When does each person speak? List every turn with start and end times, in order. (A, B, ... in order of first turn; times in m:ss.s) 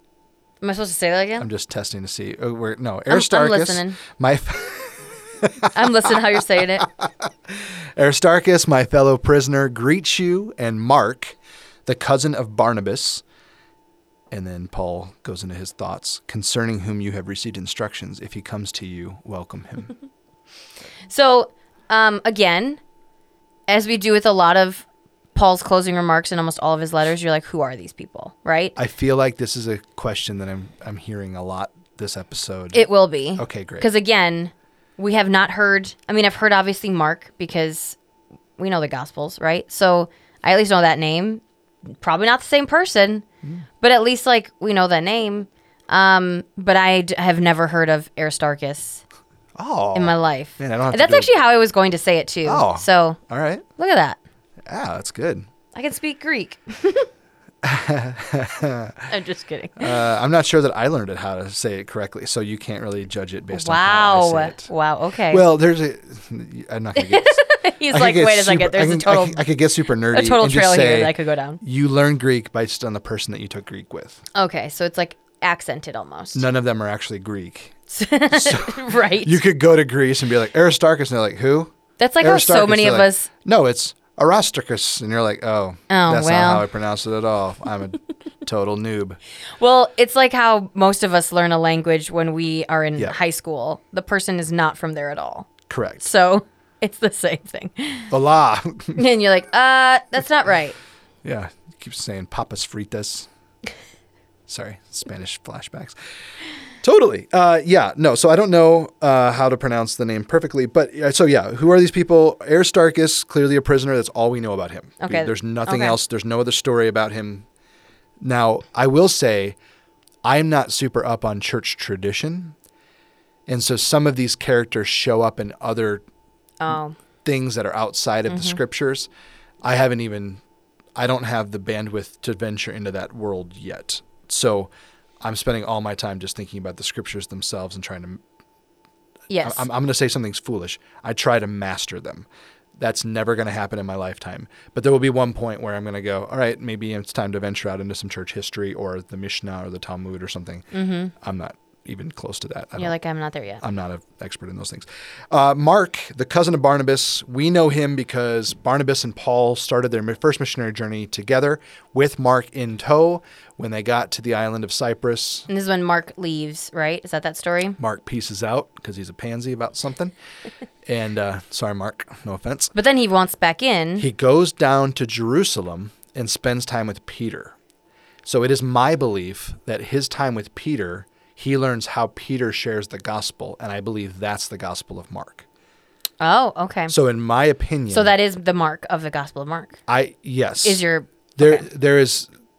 0:00.6-0:01.5 A
0:01.4-0:06.1 B
0:03.1-0:04.0 A
0:05.7-0:06.9 A
0:07.0-0:13.2 B
0:14.3-0:19.9 B
0:21.1-0:22.8 A
0:23.7-0:28.8 A
0:28.8-0:33.9 B
0:32.7-0:38.0 A
0:38.6-0:43.2 A
0:43.8-0:49.0 A
0:49.6-0:51.3 B
0:49.9-0:53.2 A
0:52.4-0:53.6 B
0:53.8-0:54.2 A
0:54.6-0:55.5 B
0:55.7-0:57.1 A
0:57.6-0:59.1 B
0:59.1-1:00.0 A
0:59.8-1:04.7 B
1:03.5-1:05.4 A
1:05.3-1:14.2 B
1:07.0-1:09.4 A
1:10.1-1:11.6 A
1:14.3-1:16.4 A
1:16.3-1:29.2 B
1:17.9-1:19.4 A
1:22.0-1:23.3 A
1:25.9-1:26.7 A
1:29.6-1:38.1 A
1:35.7-1:36.0 B
1:38.1-1:39.0 B
1:39.0-1:40.8 A
1:41.2-1:43.3 B
1:44.5-1:57.4 B
1:55.0-1:56.0 A
1:58.2-1:59.6 B
2:00.2-2:02.6 B
2:03.5-2:06.0 B
2:06.6-2:07.0 A
2:07.2-2:09.1 B
2:08.3-2:08.6 A
2:09.6-2:10.4 B
2:10.9-2:14.7 B
2:15.2-2:18.2 B
2:19.3-2:19.7 A
2:19.4-2:33.0 B
2:30.7-2:31.1 A
2:32.8-2:33.6 A
2:33.6-2:45.5 B
2:45.5-2:47.8 A
2:47.8-2:50.1 B
2:50.8-2:52.7 B
2:52.7-2:54.1 A
2:54.0-2:57.6 B
2:58.2-3:05.4 B
3:06.2-3:06.9 A
3:06.9-3:08.1 B
3:07.9-3:09.8 A
3:09.9-3:10.8 B
3:10.6-3:11.7 A
3:11.4-3:12.3 B